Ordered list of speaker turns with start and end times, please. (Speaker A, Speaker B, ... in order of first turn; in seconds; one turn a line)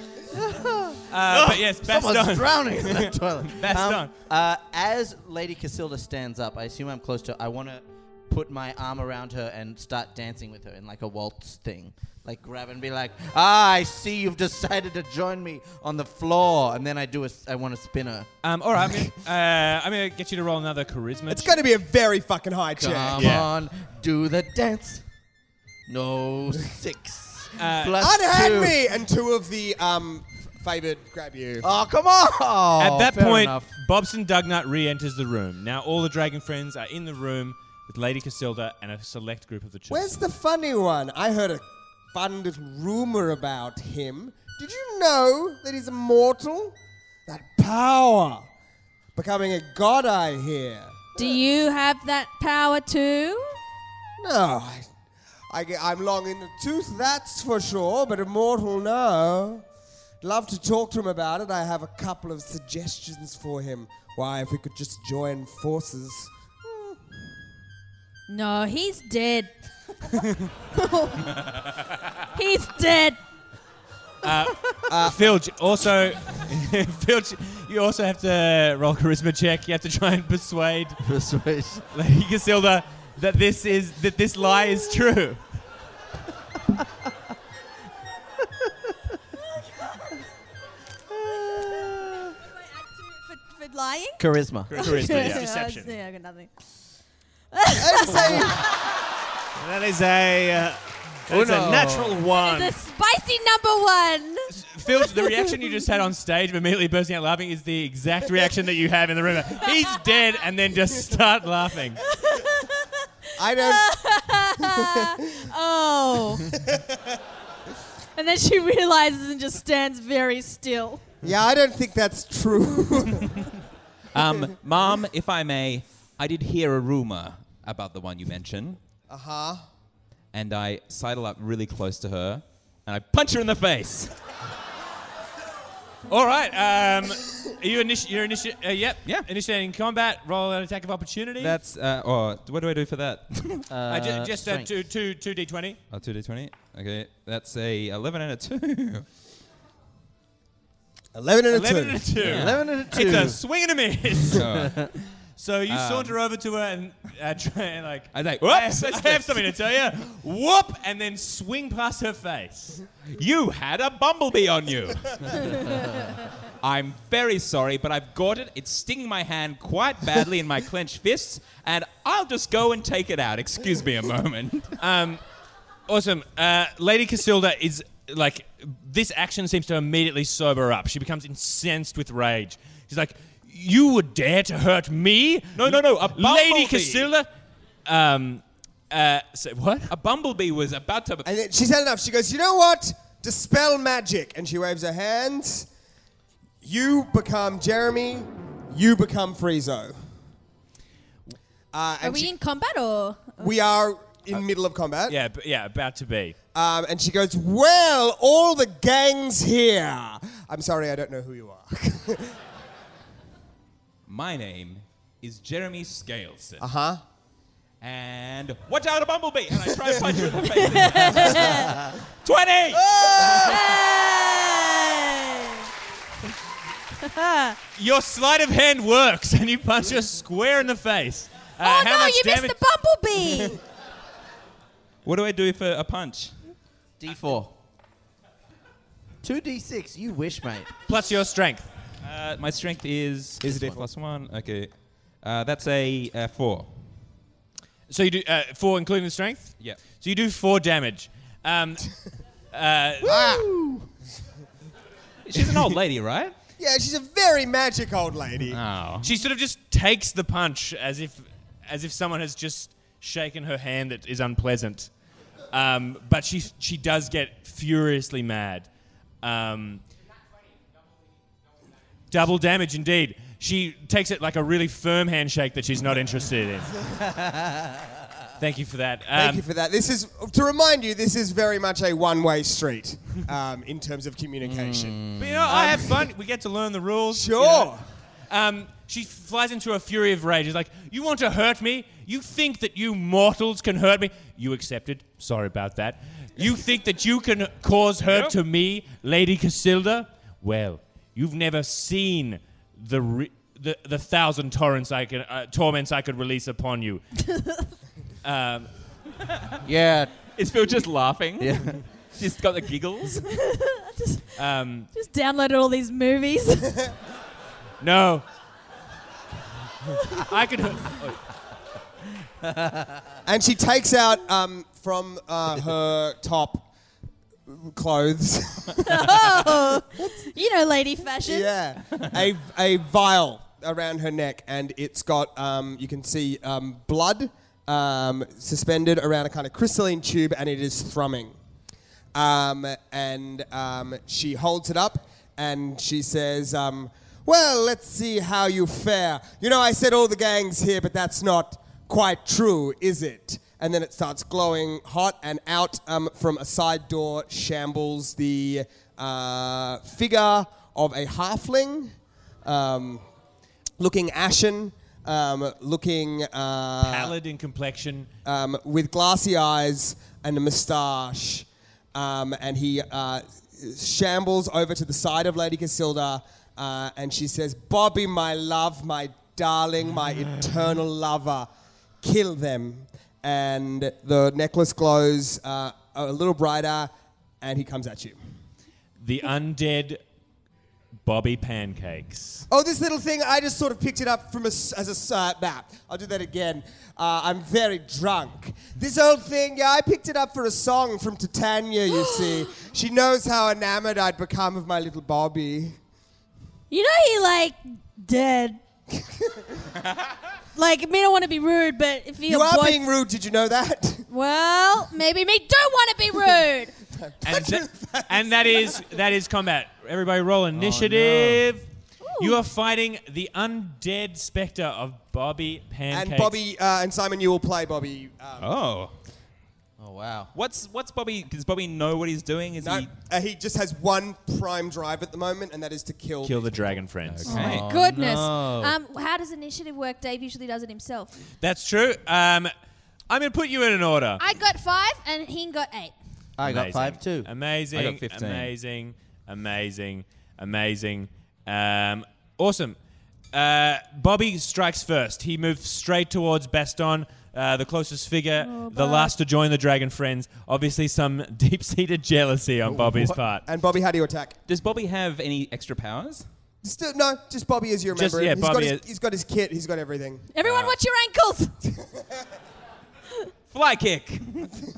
Speaker A: 0.3-1.0
Speaker B: 1.1-4.1
Speaker C: 1.3-1.6
Speaker A: 1.7-18.3
Speaker B: 18.4-21.6
Speaker D: 21.3-23.4
Speaker A: 22.8-25.0
Speaker B: 23.1-23.5
Speaker A: 25.9-28.8
Speaker B: 27.6-28.0
Speaker D: 28.0-31.7
Speaker A: 31.6-33.7
Speaker B: 32.8-40.2
Speaker D: 39.9-46.7
Speaker D: 47.3-48.5
Speaker D: 49.1-51.1
Speaker E: 51.1-53.6
Speaker D: 54.2-54.9
Speaker D: 55.5-59.6
Speaker D: 60.2-66.9
Speaker E: 68.3-69.5
Speaker E: 70.7-71.4
Speaker E: 72.3-73.2
Speaker B: 74.2-81.0
Speaker D: 74.9-75.3
Speaker A: 81.0-81.8
Speaker B: 81.9-85.4
Speaker A: 91.2-92.3
Speaker E: 92.5-94.2
Speaker A: 94.2-94.9
Speaker C: 94.7-96.0
Speaker E: 94.8-96.5
Speaker B: 94.8-95.4
Speaker E: 97.5-98.9
Speaker D: 97.7-98.7
Speaker C: 99.5-102.8
Speaker A: 101.3-102.2
Speaker E: 102.3-105.5
Speaker B: 104.5-112.0
Speaker E: 112.1-113.0
Speaker D: 113.4-113.9
Speaker E: 113.5-116.6
Speaker D: 114.6-115.1
Speaker E: 118.2-121.0
Speaker D: 121.2-123.4
Speaker F: 124.1-128.8
Speaker D: 129.1-129.7
Speaker F: 130.3-134.2
Speaker B: 136.1-141.6
Speaker F: 141.4-143.7
Speaker A: 143.7-144.7
Speaker B: 143.9-145.8
Speaker F: 145.9-149.1
Speaker D: 151.1-152.3
Speaker B: 151.5-162.8
Speaker F: 152.2-152.6
Speaker A: 152.3-153.4
Speaker F: 154.3-154.8
Speaker A: 154.5-154.9
Speaker F: 155.7-156.1
Speaker F: 158.1-159.5
Speaker F: 163.1-165.9
Speaker F: 166.6-174.8
Speaker B: 174.8-175.2
Speaker B: 175.9-187.3
Speaker F: 185.6-187.1
Speaker B: 187.9-189.9
Speaker F: 189.9-191.3
Speaker D: 191.2-195.7
Speaker D: 196.6-200.0
Speaker D: 201.7-202.3
Speaker E: 202.0-203.5
Speaker D: 203.4-205.2
Speaker B: 205.1-206.4
Speaker D: 206.5-212.4
Speaker F: 214.1-216.6
Speaker D: 216.6-217.0
Speaker F: 217.8-223.6
Speaker E: 220.6-221.7
Speaker D: 223.0-223.6
Speaker E: 223.2-225.7
Speaker E: 227.1-227.6
Speaker B: 227.8-232.6
Speaker E: 231.6-233.6
Speaker F: 235.0-236.3
Speaker A: 237.0-237.5
Speaker A: 239.2-240.7
Speaker B: 240.9-241.7
Speaker F: 242.0-244.7
Speaker D: 243.4-243.9
Speaker F: 245.2-246.7
Speaker B: 247.9-251.9
Speaker F: 249.6-249.8
Speaker B: 252.5-253.3
Speaker D: 253.0-253.9
Speaker F: 255.3-256.3
Speaker D: 256.6-258.6
Speaker F: 258.5-259.1
Speaker B: 259.0-264.9
Speaker B: 265.5-268.7
Speaker B: 269.2-269.8
Speaker B: 272.1-276.8
Speaker B: 278.4-279.4
Speaker D: 279.1-286.1
Speaker A: 284.4-285.5
Speaker B: 285.2-287.7
Speaker D: 287.1-287.8
Speaker B: 288.3-307.0
Speaker F: 298.0-298.3
Speaker E: 307.3-307.7
Speaker B: 308.2-308.7
Speaker A: 309.6-310.1
Speaker F: 310.2-313.3
Speaker A: 311.4-311.8
Speaker E: 313.4-314.3
Speaker B: 314.4-314.9
Speaker E: 314.9-316.8
Speaker B: 317.8-318.2
Speaker B: 320.1-321.2
Speaker A: 322.4-322.9
Speaker D: 323.2-326.6
Speaker D: 327.5-329.5
Speaker E: 328.8-331.5
Speaker D: 331.2-341.3
Speaker D: 342.1-361.9
Speaker D: 362.4-363.0
Speaker D: 363.8-367.1
Speaker B: 366.8-368.1
Speaker D: 368.3-381.5
Speaker D: 382.0-388.2
Speaker B: 389.0-390.0
Speaker B: 391.1-392.4
Speaker D: 392.5-405.8
Speaker E: 401.9-402.4
Speaker E: 406.7-408.6
Speaker D: 409.2-409.5
Speaker E: 410.5-412.8
Speaker D: 412.3-414.1
Speaker E: 414.1-416.7
Speaker D: 416.9-418.8
Speaker B: 417.2-421.6
Speaker A: 420.5-421.4
Speaker E: 422.1-422.4
Speaker B: 422.2-426.3
Speaker D: 425.9-428.5
Speaker F: 428.4-428.9
Speaker A: 429.8-430.3
Speaker F: 430.3-432.9
Speaker D: 432.6-436.8
Speaker B: 436.2-437.4
Speaker F: 437.0-437.7
Speaker E: 437.2-441.2
Speaker A: 437.4-438.7
Speaker B: 441.4-442.5
Speaker B: 443.1-444.2
Speaker E: 444.2-445.9
Speaker A: 446.4-447.3
Speaker B: 446.4-452.8
Speaker F: 447.7-448.5
Speaker B: 453.3-463.4
Speaker E: 458.4-459.1
Speaker D: 462.7-464.4
Speaker F: 464.5-466.2
Speaker D: 466.6-470.3
Speaker B: 467.9-468.8
Speaker E: 470.3-471.6
Speaker F: 473.5-474.6